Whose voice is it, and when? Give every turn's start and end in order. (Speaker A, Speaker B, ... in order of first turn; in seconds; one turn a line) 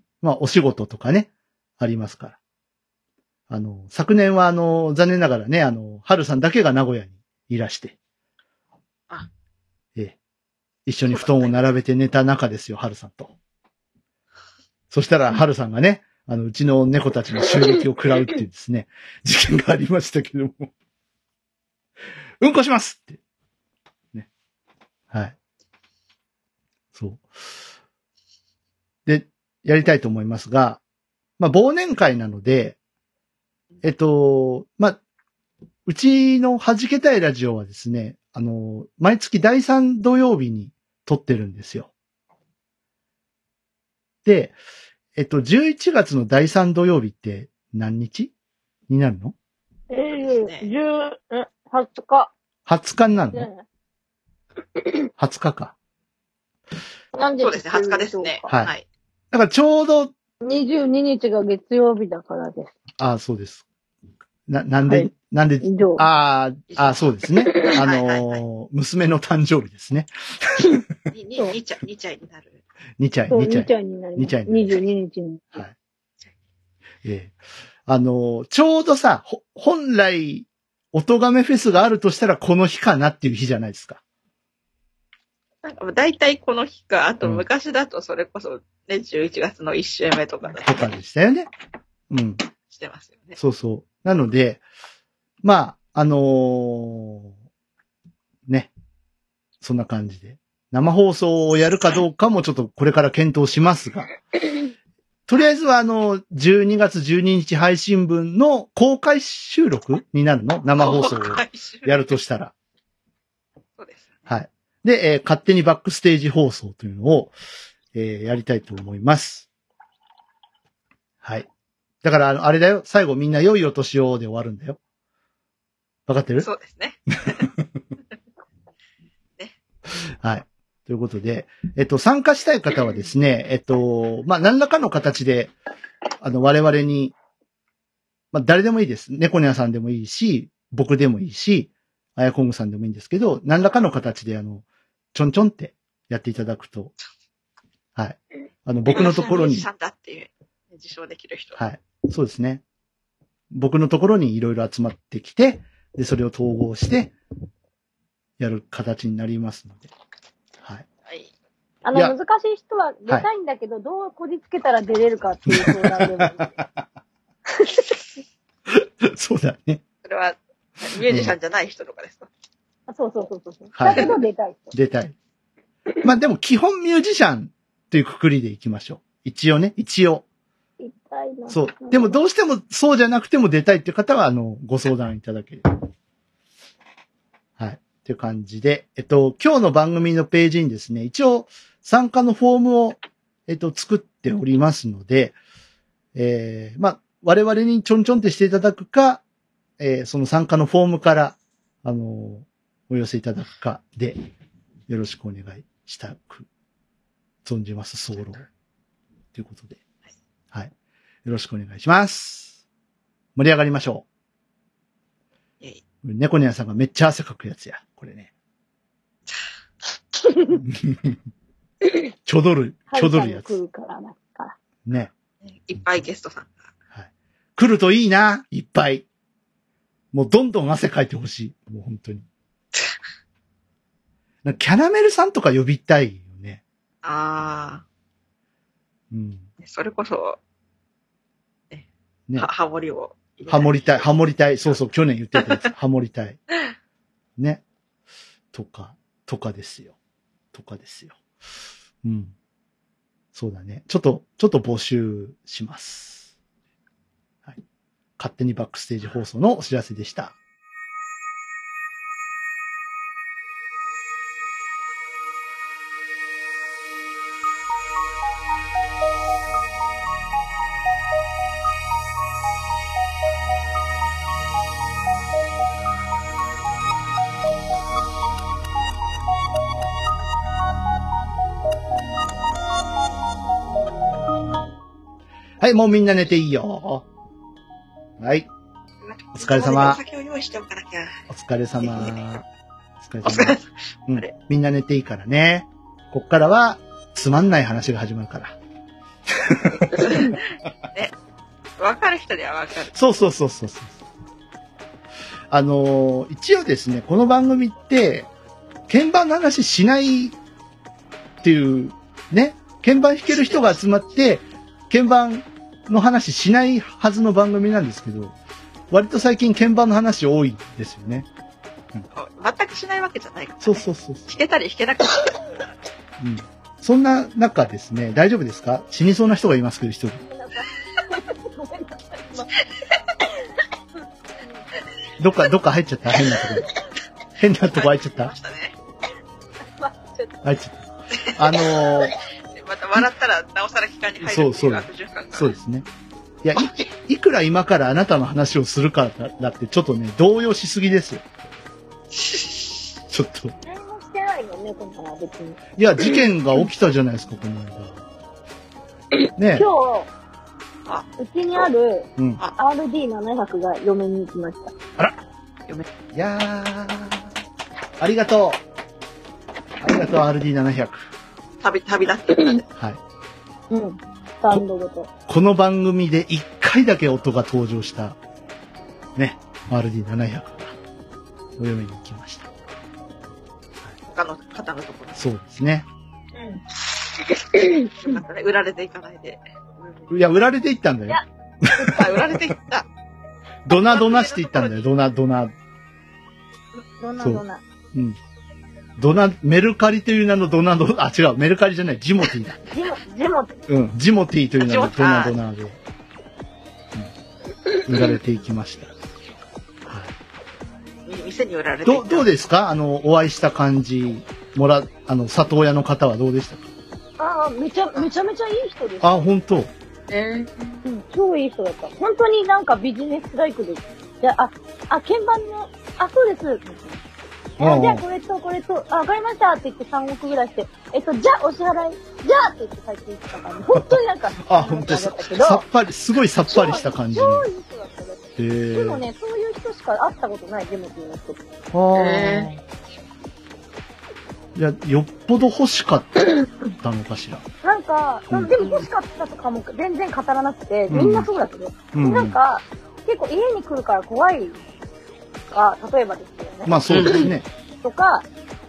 Speaker A: 0.2-2.4
Speaker A: 3.5-7.9
Speaker A: 10.8-13.3
Speaker B: 11.1-11.6
Speaker A: 14.9-20.7
Speaker A: 22.4-23.2
Speaker A: 26.9-27.3
Speaker A: 29.1-30.8
Speaker A: 31.4-32.8
Speaker A: 33.8-35.0
Speaker A: 35.9-41.9
Speaker A: 44.2-44.5
Speaker A: 45.1-48.3
Speaker A: 48.9-49.3
Speaker C: 49.9-52.3
Speaker B: 50.2-50.7
Speaker A: 52.6-53.5
Speaker C: 53.3-53.6
Speaker A: 55.2-55.7
Speaker C: 57.1-58.5
Speaker B: 57.4-58.8
Speaker A: 59.3-60.1
Speaker C: 60.4-62.7
Speaker A: 63.0-63.6
Speaker A: 64.5-70.6
Speaker C: 64.8-66.0
Speaker B: 66.7-68.4
Speaker C: 67.4-67.7
Speaker B: 71.1-72.6
Speaker A: 73.0-74.8
Speaker C: 73.3-75.6
Speaker A: 77.0-84.0
Speaker B: 85.6-90.8
Speaker A: 90.5-91.5
Speaker A: 92.1-92.4
Speaker B: 92.7-93.4
Speaker A: 93.4-94.6
Speaker A: 95.4-97.3
Speaker A: 99.6-104.1
Speaker A: 105.3-112.5
Speaker B: 110.8-112.1
Speaker B: 113.8-114.3
Speaker A: 114.3-117.3
Speaker A: 117.9-119.5
Speaker A: 121.2-121.5
Speaker A: 122.0-124.8
Speaker A: 126.1-126.5
Speaker B: 126.4-127.5
Speaker A: 130.0-135.5
Speaker A: 136.2-137.1
Speaker A: 138.3-146.9
Speaker A: 147.9-149.7
Speaker B: 148.9-151.6
Speaker A: 151.6-152.6
Speaker A: 153.5-157.1
Speaker A: 158.4-159.9
Speaker A: 160.6-160.8
Speaker B: 161.1-161.3
Speaker C: 161.8-166.5
Speaker A: 165.5-166.6
Speaker C: 167.6-167.9
Speaker A: 168.7-169.8
Speaker B: 170.0-172.3
Speaker A: 171.1-171.3
Speaker C: 172.9-174.7
Speaker A: 173.8-174.1
Speaker A: 174.7-175.1
Speaker A: 176.0-180.2
Speaker C: 180.8-182.2
Speaker A: 181.5-185.7
Speaker A: 187.6-195.3
Speaker A: 196.1-199.2
Speaker A: 199.8-204.2
Speaker A: 204.9-206.5
Speaker A: 207.4-208.4
Speaker A: 209.3-209.8
Speaker A: 211.2-212.5
Speaker A: 213.3-214.0
Speaker A: 216.0-218.3
Speaker C: 220.2-220.6
Speaker A: 220.6-221.2
Speaker A: 222.3-223.6
Speaker C: 222.9-224.6
Speaker A: 224.8-225.1
Speaker B: 225.4-226.5
Speaker A: 226.9-229.0
Speaker A: 230.1-232.2
Speaker A: 234.4-236.6
Speaker B: 237.0-237.8
Speaker A: 239.1-239.5
Speaker B: 239.6-240.4
Speaker B: 242.4-244.1
Speaker A: 243.5-246.4
Speaker A: 247.4-247.6
Speaker A: 248.5-249.9
Speaker A: 250.5-251.1
Speaker A: 252.0-252.3
Speaker A: 253.3-256.3
Speaker A: 258.2-260.3
Speaker A: 285.6-287.1
Speaker A: 288.2-288.5
Speaker B: 289.0-291.2
Speaker A: 289.3-290.0
Speaker A: 291.3-292.4
Speaker B: 291.8-292.2
Speaker A: 293.0-298.6
Speaker B: 293.2-294.3
Speaker A: 299.5-300.2
Speaker B: 300.0-300.4
Speaker B: 301.8-302.9
Speaker A: 302.9-304.0
Speaker A: 305.5-308.3
Speaker A: 308.9-310.4
Speaker A: 311.4-318.3
Speaker A: 318.9-321.3
Speaker B: 322.1-325.4
Speaker A: 323.6-324.3
Speaker A: 326.2-330.2
Speaker C: 330.2-332.5
Speaker C: 334.4-334.6
Speaker A: 335.2-336.7
Speaker A: 337.4-338.3
Speaker B: 337.7-338.8
Speaker C: 339.8-340.4
Speaker A: 340.4-342.1
Speaker B: 341.1-345.5
Speaker A: 344.2-345.9
Speaker A: 346.4-351.2
Speaker B: 346.5-346.9
Speaker B: 352.1-352.9
Speaker A: 353.1-353.5
Speaker C: 353.6-355.6
Speaker A: 355.8-358.0
Speaker A: 359.4-359.7
Speaker C: 359.5-360.1
Speaker C: 361.2-364.7
Speaker A: 366.1-367.3
Speaker A: 368.0-368.6
Speaker A: 369.8-371.1
Speaker B: 371.6-372.6
Speaker C: 373.7-375.1
Speaker A: 375.3-378.2
Speaker A: 379.1-380.8
Speaker A: 381.6-382.5
Speaker B: 384.1-385.2
Speaker A: 385.1-385.9
Speaker C: 387.5-387.9
Speaker B: 387.9-390.3
Speaker A: 390.1-392.2
Speaker B: 391.9-392.9
Speaker A: 393.6-395.5
Speaker B: 393.7-394.9
Speaker C: 397.0-397.6
Speaker A: 397.2-398.2
Speaker A: 399.0-402.6
Speaker C: 402.7-403.5
Speaker A: 403.7-405.8
Speaker B: 404.6-405.4
Speaker A: 407.9-408.9
Speaker B: 411.1-412.3
Speaker A: 411.8-416.7
Speaker C: 417.2-419.3
Speaker A: 419.0-419.7
Speaker B: 420.1-420.8
Speaker C: 420.8-427.0
Speaker A: 427.6-428.0
Speaker C: 427.6-435.6
Speaker A: 433.8-437.4
Speaker C: 436.4-441.4
Speaker A: 438.4-439.0
Speaker A: 441.7-442.6
Speaker B: 441.9-442.5
Speaker A: 444.5-446.3
Speaker A: 446.8-447.4
Speaker C: 447.6-454.6
Speaker A: 450.9-451.3
Speaker A: 451.9-452.4
Speaker C: 455.5-457.3
Speaker A: 456.6-457.5
Speaker B: 456.9-457.3
Speaker C: 457.8-458.2